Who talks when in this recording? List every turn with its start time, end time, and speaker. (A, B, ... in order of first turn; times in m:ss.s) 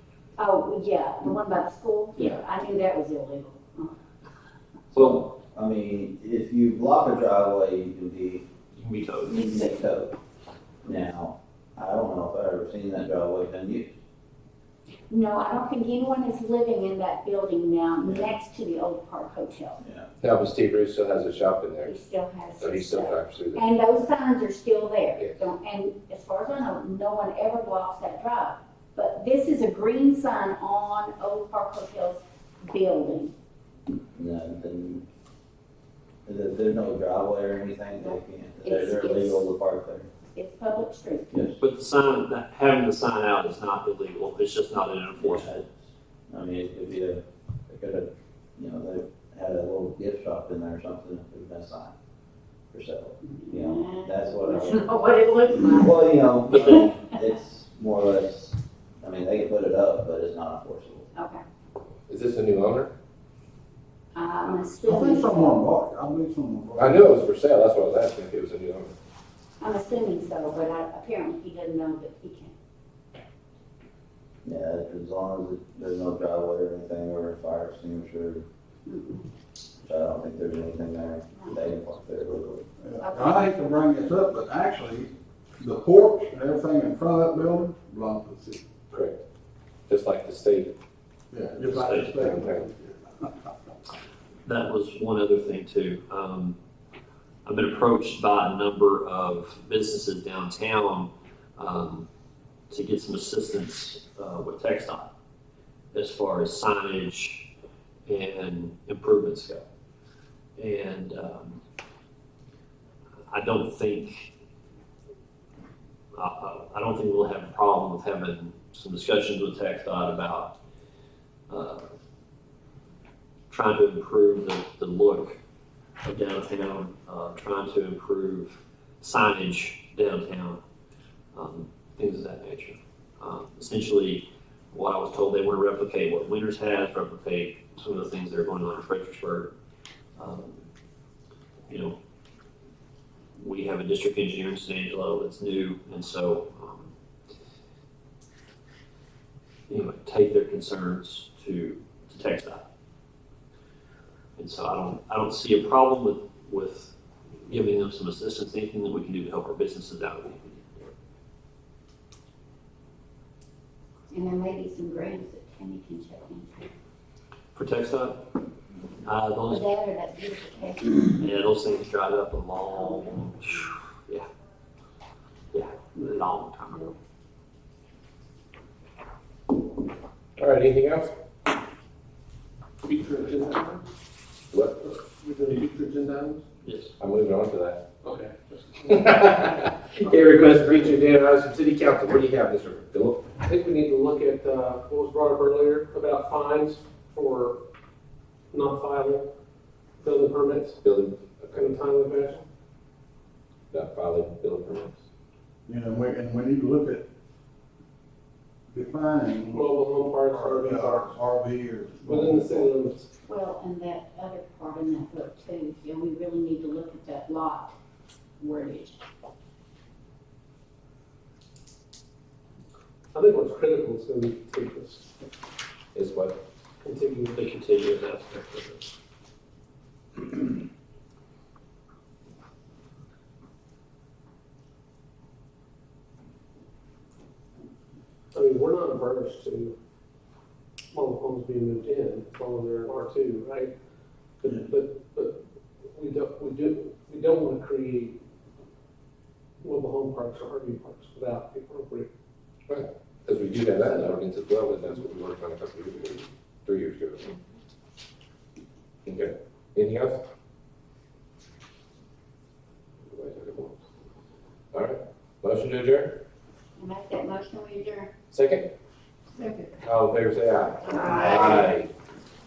0:00.4-0:03.9 A
0:04.9-0:05.3 B
0:05.0-0:08.5 C
0:08.7-0:09.4 B
0:09.3-0:10.1 C
0:10.8-0:13.9 C
0:15.1-0:19.8 A
0:18.0-0:18.3 C
0:19.8-0:20.1 C
0:20.2-0:21.9 D
0:21.8-0:33.3 A
0:22.6-0:23.7 D
0:34.1-0:35.0 C
0:36.2-0:40.1 C
0:38.0-0:39.4 A
0:40.3-0:41.3 A
0:41.3-0:41.6 C
0:41.6-0:45.6 B
0:45.2-0:45.7 C
0:46.3-0:51.9 C
0:52.7-1:01.1 C
0:53.2-0:56.9 A
1:01.1-1:01.4 A
1:02.1-1:02.9 D
1:04.1-1:05.6 A
1:04.8-1:07.2 E
1:06.8-1:08.9 D
1:09.6-1:12.5 A
1:14.4-1:18.4 C
1:18.8-1:19.3 A
1:19.8-1:22.7 C
1:22.8-1:28.6 E
1:23.0-1:23.4 A
1:28.9-1:29.2 D
1:29.9-1:30.7 D
1:31.3-1:33.2 E
1:31.6-1:32.3 B
1:32.2-1:32.7 D
1:34.4-1:36.6 B
1:37.4-1:42.1 B
1:42.7-1:45.1 B
1:45.9-1:47.5 B
1:48.0-1:49.6 B
1:50.6-1:51.6 B
1:53.3-1:54.3 B
1:56.1-2:00.6 B
2:01.5-2:01.9 B
2:03.5-2:05.4 B
2:06.0-2:10.6 B
2:11.3-2:19.5 B
2:20.2-2:20.6 B
2:21.7-2:22.0 B
2:23.4-2:26.9 B
2:29.7-2:32.7 B
2:34.4-2:40.9 B
2:44.1-2:46.7 A
2:47.5-2:48.3 B
2:49.0-2:49.6 B
2:49.5-2:51.0 A
2:51.2-2:54.2 B
2:55.5-2:56.9 B
3:00.4-3:01.1 D
3:02.8-3:03.8 F
3:04.5-3:04.8 D
3:04.9-3:06.4 F
3:06.6-3:06.9 B
3:07.0-3:07.8 D
3:08.0-3:09.1 F
3:08.9-3:13.3 D
3:13.4-3:17.6 F
3:18.5-3:19.3 F
3:20.0-3:20.8 F
3:20.8-3:21.7 D
3:21.5-3:22.4 F
3:23.7-3:24.9 D
3:25.7-3:27.0 E
3:28.7-3:29.6 E
3:29.5-3:31.2 F
3:30.3-3:32.7 E
3:32.0-3:33.1 F
3:33.2-3:37.7 A
3:38.4-3:39.0 A
3:43.1-3:45.1 F
3:45.9-3:46.4 D
3:46.8-3:47.4 F
3:47.3-3:48.8 B
3:58.3-3:59.7 F
4:00.9-4:03.7 F
4:04.4-4:05.4 F
4:05.9-4:08.2 F
4:09.6-4:12.1 F
4:12.7-4:17.3 D
4:19.0-4:20.2 D
4:23.1-4:23.7 D
4:24.7-4:26.2 D
4:26.8-4:28.1 A
4:28.3-4:28.7 D
4:29.4-4:29.7 A
4:29.8-4:31.9 D
4:30.8-4:31.7 A